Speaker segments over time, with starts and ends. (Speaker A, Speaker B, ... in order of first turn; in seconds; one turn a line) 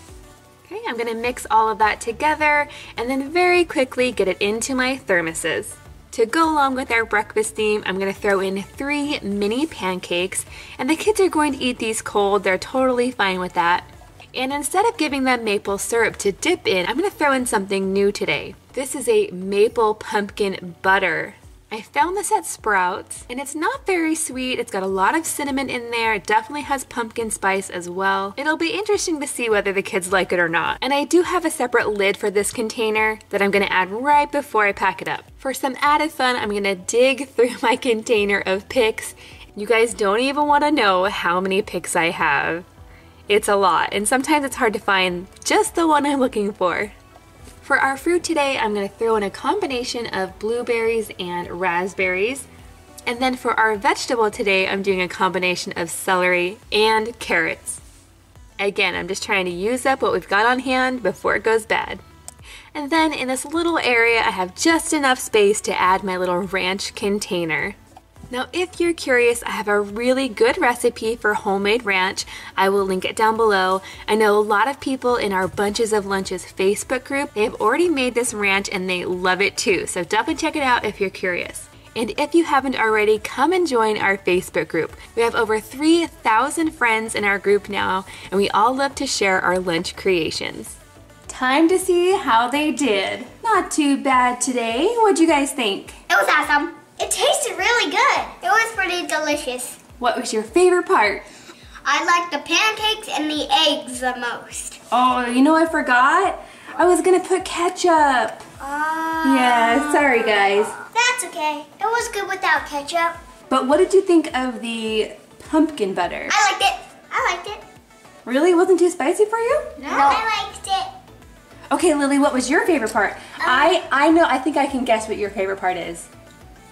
Speaker A: 0.7-42.7
Speaker A: 43.3-46.9
Speaker A: 47.6-52.5
Speaker A: 53.1-57.8
Speaker A: 58.6-62.0
Speaker A: 62.7-67.8
Speaker A: 68.3-90.8
Speaker A: 91.3-96.0
Speaker B: 96.1-99.8
Speaker A: 100.0-101.2
Speaker B: 101.8-104.8
Speaker A: 104.9-108.4
Speaker B: 108.6-113.2
Speaker A: 109.2-110.8
Speaker A: 113.5-116.4
Speaker B: 116.3-117.6
Speaker A: 118.2-120.2
Speaker B: 119.9-120.9
Speaker A: 121.7-126.1
Speaker B: 123.4-123.8